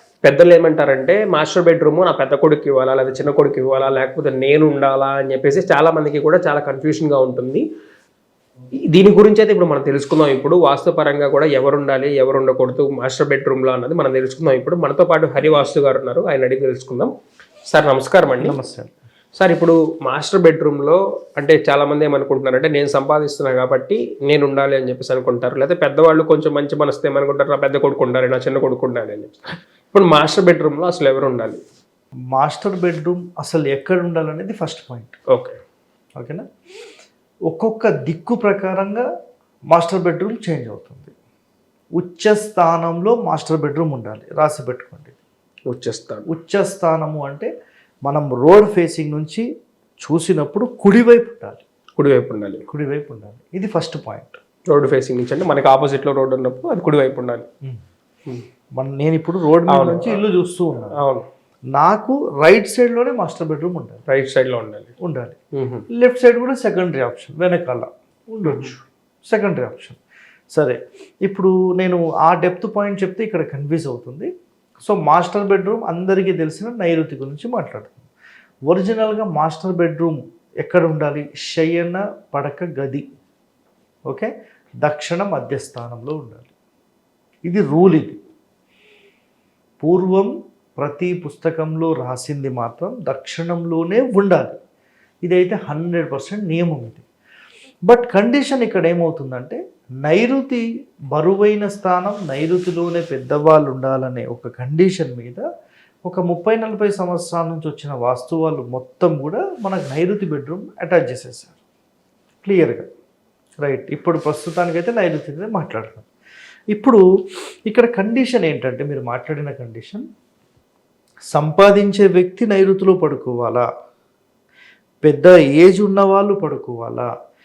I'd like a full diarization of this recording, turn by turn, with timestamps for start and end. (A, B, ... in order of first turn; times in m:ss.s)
0:00.2-0:07.6 A
0:08.9-0:17.1 A
0:17.7-0:18.6 A
0:18.4-0:18.9 B
0:19.4-0:31.6 A
0:32.3-0:35.2 B
0:35.3-0:35.6 A
0:36.2-0:36.4 B
0:37.5-0:39.0 B
0:39.7-0:41.1 B
0:42.0-0:45.2 B
0:45.7-0:46.2 A
0:46.3-0:47.5 B
0:48.0-0:49.5 B
0:50.0-0:51.6 B
0:52.0-0:52.6 A
0:52.7-0:54.4 B
0:54.7-0:57.4 A
0:58.8-1:01.0 B
0:59.7-1:00.2 A
1:00.9-1:01.3 A
1:01.7-1:04.0 B
1:04.1-1:04.9 A
1:05.0-1:05.4 B
1:05.5-1:05.8 A
1:05.9-1:10.0 B
1:08.4-1:08.7 A
1:10.5-1:18.1 B
1:18.7-1:23.1 B
1:24.8-1:26.5 B
1:27.4-1:28.2 B
1:29.8-1:34.6 B
1:35.2-1:37.0 B
1:37.9-1:45.4 B
1:46.1-1:51.6 B
1:52.4-1:52.9 B
1:53.6-1:56.1 B
1:56.7-1:57.0 B
1:57.7-2:00.0 B
2:01.3-2:03.7 B
2:05.0-2:07.1 B